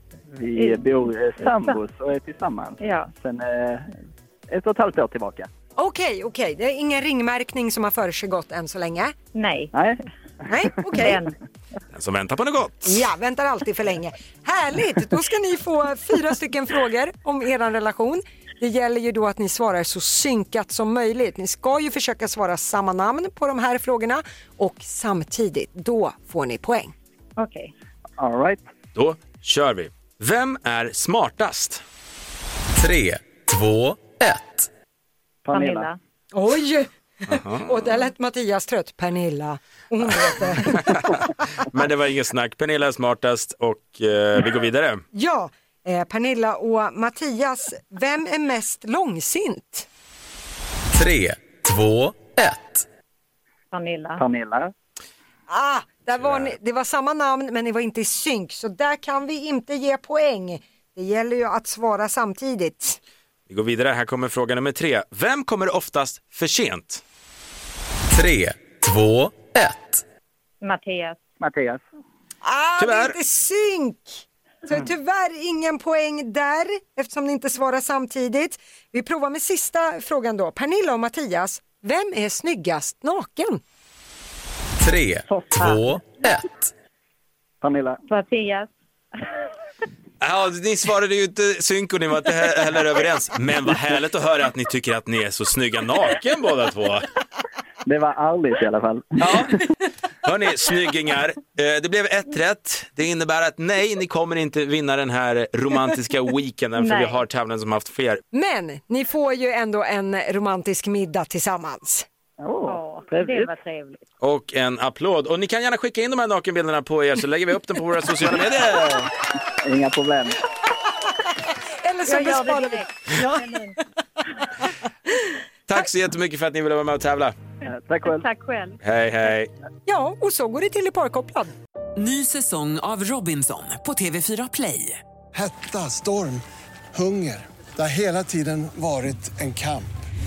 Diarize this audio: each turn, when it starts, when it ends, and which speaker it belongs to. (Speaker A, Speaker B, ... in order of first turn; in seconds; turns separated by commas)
Speaker A: 0.3-3.9, Speaker B: 0.6-0.8, Speaker B: 2.8-3.1, Speaker A: 4.5-5.5, Speaker C: 5.8-9.1, Speaker B: 9.3-9.7, Speaker A: 9.7-10.0, Speaker C: 10.5-11.2, Speaker B: 10.9-11.3, Speaker D: 11.9-13.0, Speaker C: 12.8-26.9, Speaker B: 27.4-27.7, Speaker A: 28.2-28.6, Speaker D: 28.9-31.8, Speaker E: 32.8-34.7, Speaker A: 35.4-35.9, Speaker B: 35.5-36.0, Speaker C: 36.3-41.3, Speaker D: 37.3-37.7, Speaker D: 41.6-45.0, Speaker C: 45.1-49.9, Speaker E: 51.0-52.8, Speaker B: 53.7-54.2, Speaker A: 54.2-54.7, Speaker C: 55.5-63.0, Speaker D: 56.2-56.5, Speaker D: 63.5-67.0, Speaker E: 68.1-70.0, Speaker B: 70.6-71.2, Speaker A: 71.4-71.8, Speaker C: 72.4-83.6, Speaker D: 72.8-73.2, Speaker E: 84.8-86.7, Speaker B: 85.3-85.8, Speaker A: 87.6-88.0, Speaker B: 88.1-88.7, Speaker D: 90.2-97.1, Speaker A: 97.8-99.4, Speaker D: 99.2-99.6, Speaker D: 100.2-108.2, Speaker B: 106.8-107.2, Speaker C: 108.3-112.1, Speaker A: 112.4-113.5, Speaker B: 112.7-114.0, Speaker D: 114.2-119.1, Speaker A: 119.6-120.4, Speaker C: 121.8-123.8, Speaker B: 122.1-123.7, Speaker D: 125.7-127.3, Speaker A: 127.7-128.3, Speaker B: 128.1-128.8, Speaker D: 128.8-129.5, Speaker C: 129.9-131.5, Speaker F: 132.0-135.0, Speaker G: 135.3-139.9